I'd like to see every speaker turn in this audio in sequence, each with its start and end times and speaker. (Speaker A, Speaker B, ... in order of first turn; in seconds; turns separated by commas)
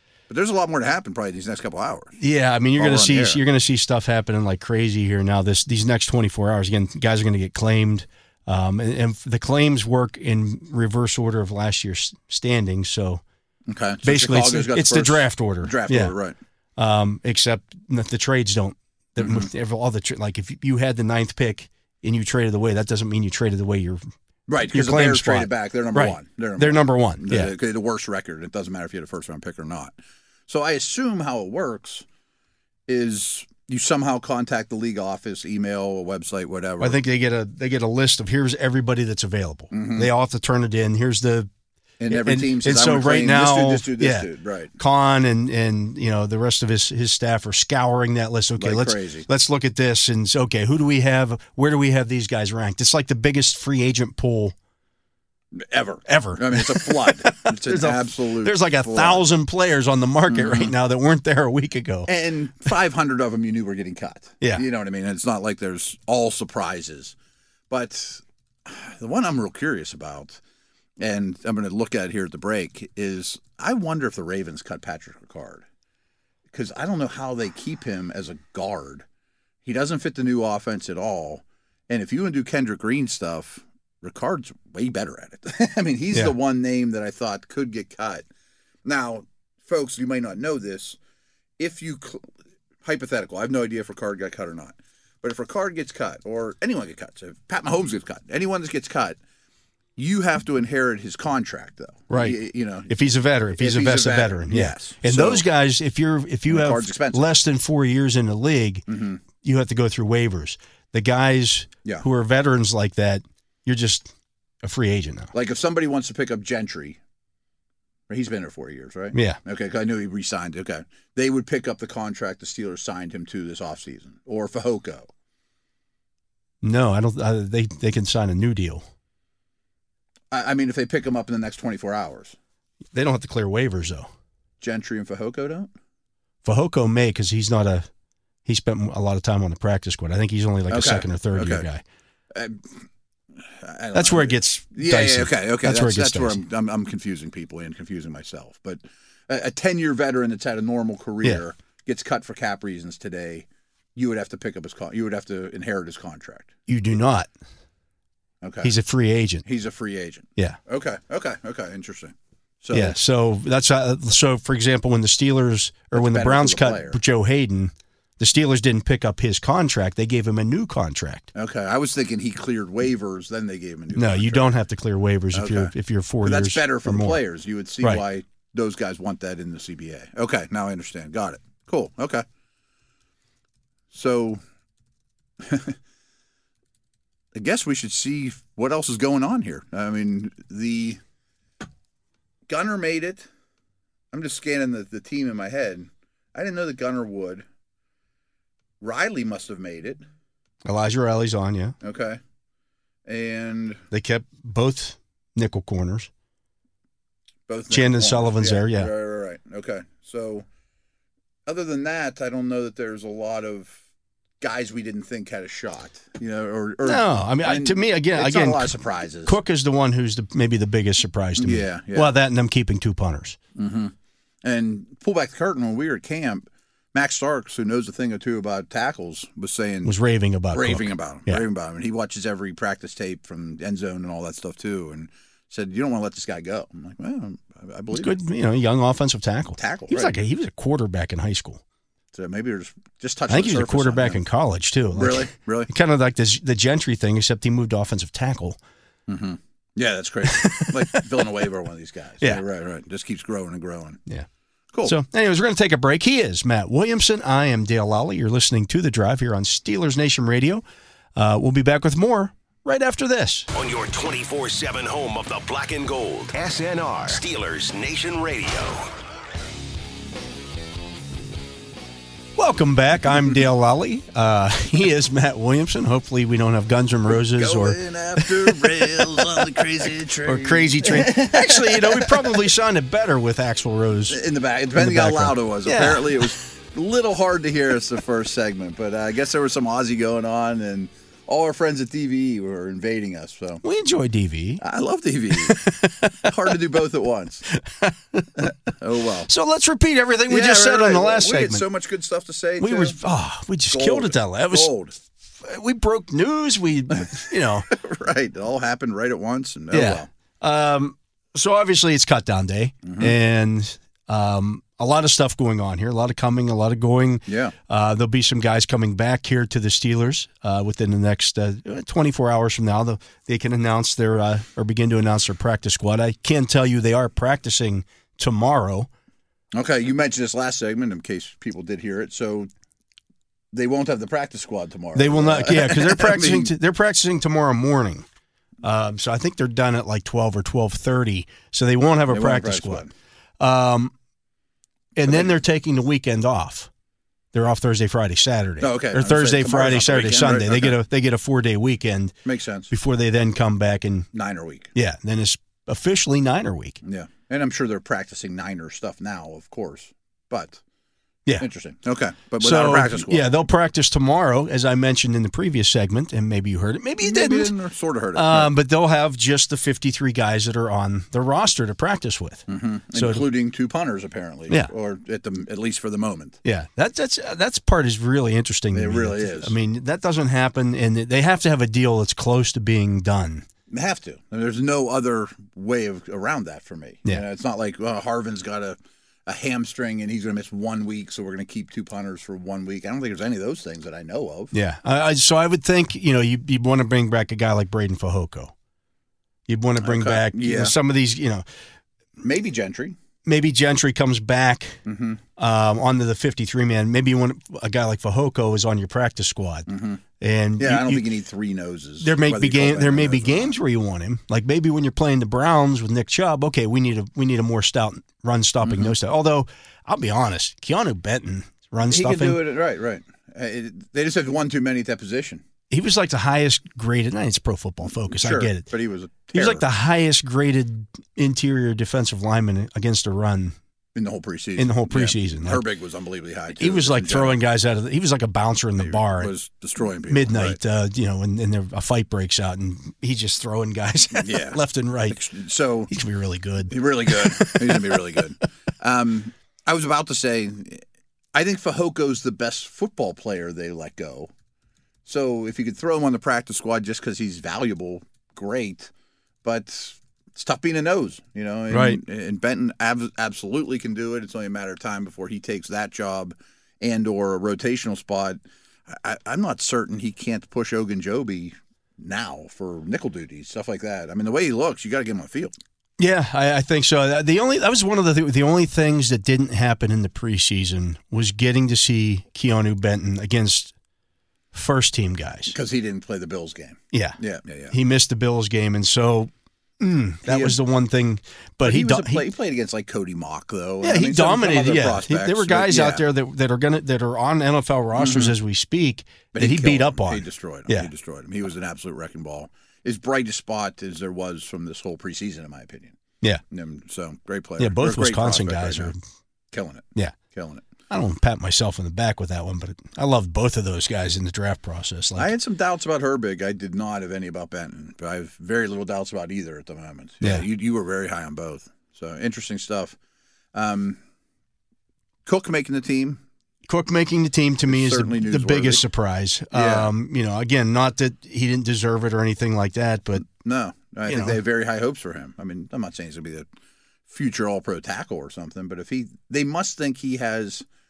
Speaker A: 0.3-2.2, Speaker B: 2.2-13.2, Speaker A: 2.8-3.4, Speaker A: 13.7-16.3, Speaker B: 14.0-16.1, Speaker B: 16.8-24.0, Speaker A: 19.2-19.5, Speaker A: 24.5-29.9, Speaker B: 24.7-27.5, Speaker A: 30.5-32.0, Speaker A: 32.9-37.0, Speaker B: 36.8-41.5, Speaker A: 39.7-40.1, Speaker A: 42.0-44.7, Speaker B: 42.1-54.5, Speaker A: 48.6-49.2, Speaker A: 55.5-59.3, Speaker B: 56.1-62.1, Speaker A: 60.3-60.7, Speaker A: 62.0-67.1, Speaker A: 67.7-70.4, Speaker A: 71.0-75.6, Speaker A: 76.5-79.0, Speaker A: 79.6-88.2, Speaker A: 88.8-91.0, Speaker A: 91.6-92.2, Speaker A: 92.8-99.2, Speaker A: 100.0-105.4, Speaker B: 102.1-108.8, Speaker A: 106.5-107.3, Speaker A: 108.9-109.2, Speaker B: 109.4-114.1, Speaker B: 114.6-115.3, Speaker A: 115.3-117.0, Speaker A: 118.1-125.1, Speaker B: 119.1-119.4, Speaker B: 126.6-128.8, Speaker A: 130.3-132.3, Speaker B: 132.9-134.1, Speaker A: 134.6-135.7, Speaker B: 136.4-137.9, Speaker B: 138.4-141.8, Speaker A: 140.7-141.7, Speaker A: 142.3-142.8, Speaker A: 143.5-156.5, Speaker B: 143.9-146.4, Speaker B: 156.7-157.3, Speaker A: 158.4-158.7, Speaker B: 158.6-159.4, Speaker A: 159.4-162.9, Speaker B: 162.7-171.3, Speaker A: 165.9-167.0, Speaker A: 171.3-174.5, Speaker B: 173.9-177.2, Speaker A: 175.3-182.2, Speaker A: 183.9-184.4, Speaker A: 185.4-185.8, Speaker A: 187.3-191.0, Speaker A: 192.5-193.3, Speaker A: 194.1-197.4, Speaker A: 198.8-200.0, Speaker B: 200.6-201.7, Speaker A: 201.8-202.2, Speaker A: 203.1-203.8, Speaker B: 203.9-206.1, Speaker A: 207.5-210.4, Speaker B: 207.7-208.9, Speaker A: 211.4-213.8, Speaker A: 214.4-219.3, Speaker B: 216.8-218.7, Speaker B: 219.2-223.4, Speaker A: 221.4-222.1, Speaker A: 223.5-223.9, Speaker A: 224.4-230.0, Speaker B: 229.8-231.4, Speaker A: 230.5-238.2, Speaker B: 237.9-241.6, Speaker A: 239.6-240.1, Speaker A: 242.1-244.2, Speaker B: 243.3-248.6, Speaker A: 244.9-245.7, Speaker A: 249.1-254.0, Speaker B: 250.2-251.3, Speaker B: 254.8-260.6, Speaker B: 261.1-263.5, Speaker C: 263.5-268.9, Speaker B: 272.4-279.6, Speaker A: 277.1-282.5, Speaker B: 280.2-284.2, Speaker A: 284.1-293.6, Speaker B: 284.8-286.4, Speaker B: 293.6-294.6, Speaker A: 294.6-297.5, Speaker B: 295.3-296.3, Speaker B: 297.5-298.4, Speaker A: 298.4-299.3, Speaker B: 299.3-301.6, Speaker A: 300.3-303.0, Speaker B: 302.6-304.7, Speaker A: 303.7-304.9, Speaker B: 305.4-307.7, Speaker A: 306.9-310.1, Speaker B: 309.7-328.9, Speaker A: 312.8-313.2, Speaker A: 317.3-317.6, Speaker A: 329.5-332.5, Speaker A: 333.5-336.5, Speaker B: 334.9-338.1, Speaker B: 338.6-342.8, Speaker A: 342.1-342.9, Speaker B: 343.4-343.9, Speaker B: 344.9-346.7, Speaker A: 345.0-345.3, Speaker B: 347.3-352.1, Speaker A: 348.6-350.8, Speaker A: 352.2-352.7, Speaker B: 352.7-354.1, Speaker A: 354.1-354.7, Speaker B: 354.8-356.8, Speaker A: 356.8-360.6, Speaker A: 361.4-363.4, Speaker B: 362.4-367.5, Speaker A: 367.0-368.5, Speaker B: 368.1-373.2, Speaker A: 372.5-376.4, Speaker B: 376.4-383.4, Speaker A: 378.7-379.5, Speaker A: 383.7-394.5, Speaker B: 394.5-398.5, Speaker B: 399.5-401.4, Speaker A: 399.8-400.8, Speaker A: 402.2-402.9, Speaker B: 403.2-404.8, Speaker A: 404.9-405.2, Speaker B: 405.4-409.7, Speaker A: 409.7-410.0, Speaker B: 410.2-411.1, Speaker A: 410.6-413.6, Speaker B: 412.0-422.4, Speaker A: 418.6-418.9, Speaker A: 421.9-425.4, Speaker B: 425.7-428.7, Speaker A: 428.1-429.6, Speaker B: 429.3-433.5, Speaker A: 433.9-437.4, Speaker B: 434.6-435.6, Speaker B: 436.6-439.3, Speaker A: 438.8-440.6, Speaker B: 440.1-445.2, Speaker A: 444.1-445.9, Speaker B: 445.9-448.0, Speaker A: 446.7-450.8, Speaker A: 451.3-454.3, Speaker A: 455.1-458.9, Speaker A: 459.4-475.5, Speaker B: 461.7-462.0, Speaker B: 476.0-483.7, Speaker B: 484.5-485.5, Speaker A: 485.5-487.7, Speaker B: 486.9-487.2, Speaker B: 487.7-492.2, Speaker A: 490.2-490.6, Speaker A: 491.6-496.0, Speaker B: 493.8-500.9, Speaker A: 497.9-498.4, Speaker A: 499.3-506.0, Speaker A: 506.5-508.9, Speaker B: 507.6-509.0, Speaker A: 509.5-510.6, Speaker B: 510.9-515.3, Speaker A: 515.1-523.0, Speaker A: 523.5-524.0, Speaker A: 525.2-526.2, Speaker B: 526.7-533.2, Speaker A: 527.7-528.8, Speaker A: 529.5-529.9, Speaker A: 533.2-536.5, Speaker B: 534.1-534.4, Speaker A: 537.1-540.6